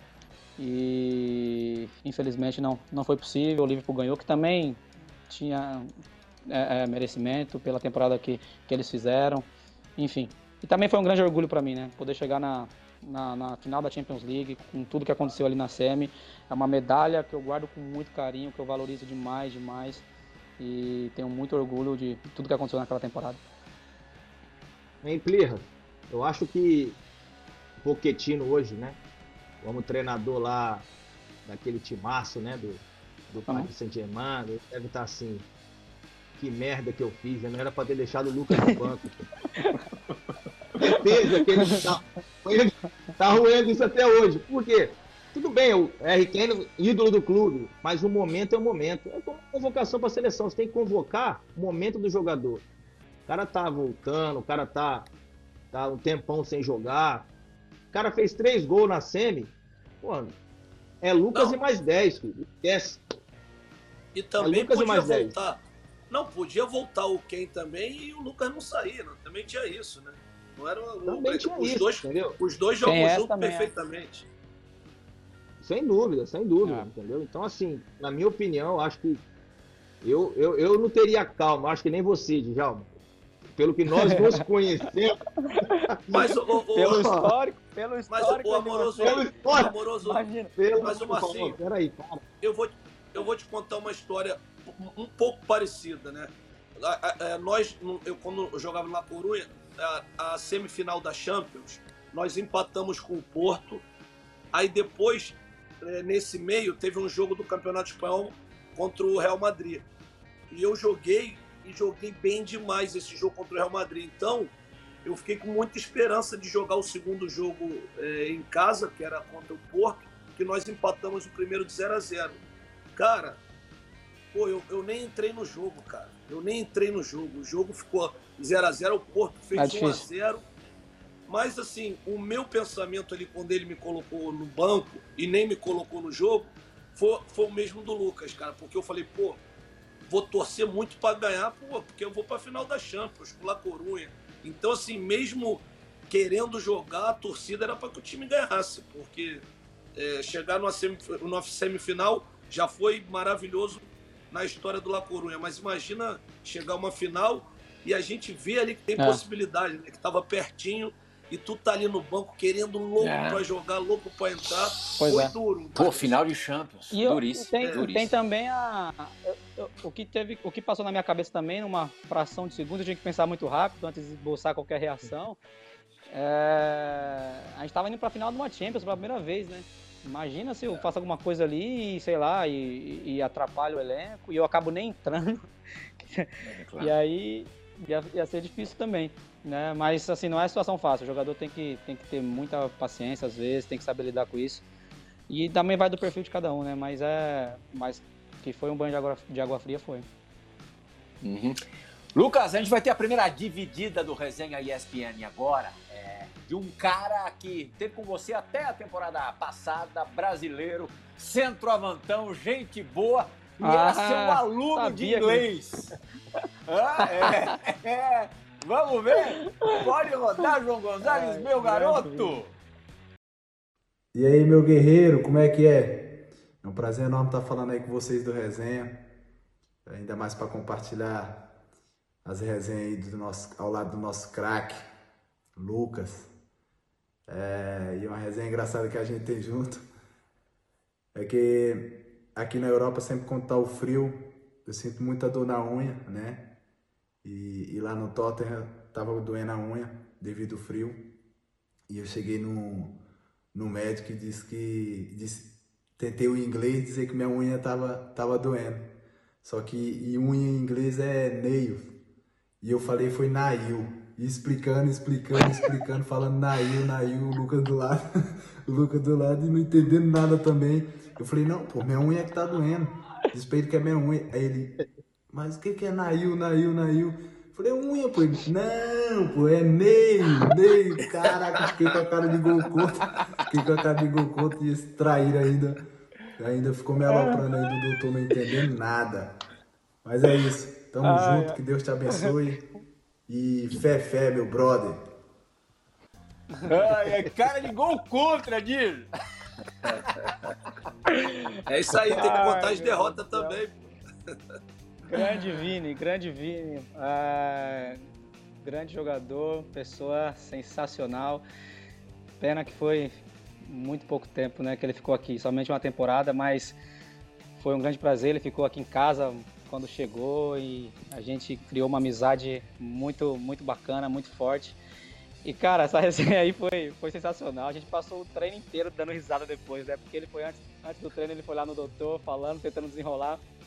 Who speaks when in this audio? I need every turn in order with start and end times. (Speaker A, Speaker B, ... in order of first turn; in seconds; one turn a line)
Speaker A: 0.6-5.9
Speaker A: 6.5-9.5
Speaker A: 10.0-20.0
Speaker A: 20.6-23.4
Speaker B: 25.0-27.0
Speaker B: 27.8-29.0
Speaker B: 29.6-30.9
Speaker B: 31.5-35.5
Speaker B: 36.4-39.3
Speaker A: 38.5-38.8
Speaker A: 39.5-39.8
Speaker A: 40.8-41.9
Speaker B: 40.8-52.6
Speaker B: 53.3-55.1
Speaker B: 55.7-57.3
Speaker B: 57.9-60.4
Speaker B: 61.0-63.0
Speaker C: 64.1-74.3
Speaker B: 64.4-65.3
Speaker B: 71.0-72.4
Speaker A: 72.8-73.7
Speaker B: 75.6-79.2
Speaker B: 80.0-82.9
Speaker B: 83.5-85.2
Speaker A: 84.0-84.4
Speaker A: 85.4-85.8
Speaker B: 85.9-87.3
Speaker C: 86.1-87.1
Speaker A: 86.7-90.5
Speaker C: 88.1-90.2
Speaker B: 89.0-89.8
Speaker B: 90.6-92.2
Speaker C: 90.8-91.6
Speaker C: 92.4-103.8
Speaker C: 104.5-109.9
Speaker C: 110.5-114.5
Speaker C: 115.0-122.4
Speaker C: 123.0-123.4
Speaker C: 124.3-130.4
Speaker A: 129.6-130.1
Speaker C: 131.3-139.4
Speaker C: 140.1-149.4
Speaker C: 150.0-166.2
Speaker A: 159.0-159.2
Speaker D: 163.0-163.4
Speaker A: 165.0-165.3
Speaker D: 165.8-168.1
Speaker A: 166.9-175.4
Speaker C: 167.6-167.9
Speaker A: 176.1-185.5
Speaker A: 186.0-194.6
Speaker D: 186.4-186.9
Speaker A: 195.3-200.1
Speaker D: 201.2-201.6
Speaker D: 202.2-215.9
Speaker A: 213.6-215.5
Speaker D: 216.7-222.5
Speaker A: 217.2-217.5
Speaker A: 221.0-222.4
Speaker E: 224.1-229.1
Speaker E: 229.9-231.5
Speaker E: 232.2-234.9
Speaker E: 235.6-236.3
Speaker E: 237.3-239.8
Speaker E: 241.1-246.5
Speaker E: 247.2-251.2
Speaker E: 251.9-253.0
Speaker E: 253.5-262.0
Speaker E: 262.6-268.1
Speaker E: 268.7-285.8
Speaker E: 286.4-289.4
Speaker E: 290.0-292.7
Speaker A: 291.0-291.6
Speaker E: 293.3-295.0
Speaker D: 296.6-299.1
Speaker D: 299.8-300.1
Speaker C: 301.7-303.7
Speaker A: 302.0-303.6
Speaker A: 305.1-308.0
Speaker A: 308.6-311.4
Speaker A: 312.4-316.8
Speaker A: 317.6-324.8
Speaker A: 325.4-333.4